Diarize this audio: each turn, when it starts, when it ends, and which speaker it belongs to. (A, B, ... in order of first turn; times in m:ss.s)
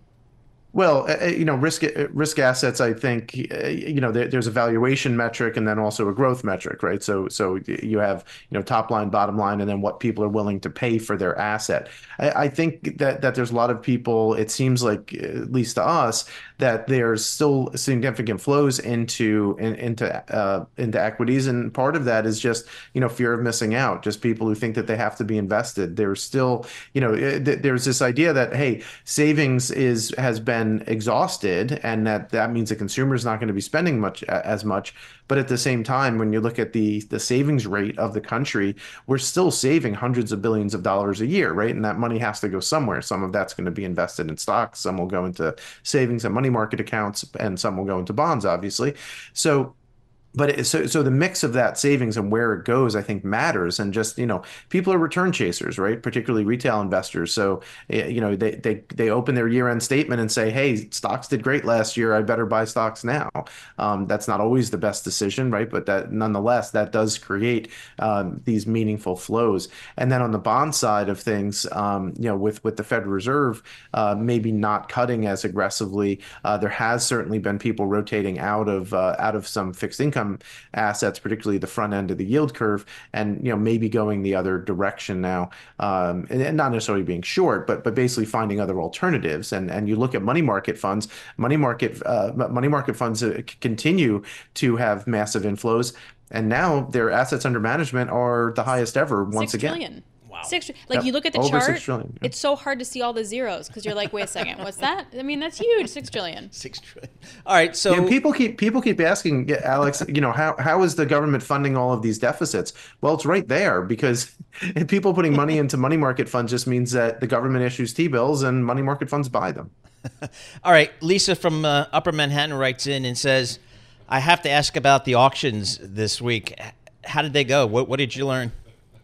0:00.7-0:49.8 A
0:50.3-1:39.8 A
1:39.3-1:46.5 B
1:40.2-1:40.5 C
1:40.9-1:42.3 A
1:46.5-1:48.1 C
1:47.9-1:59.7 A
2:00.6-2:08.5 C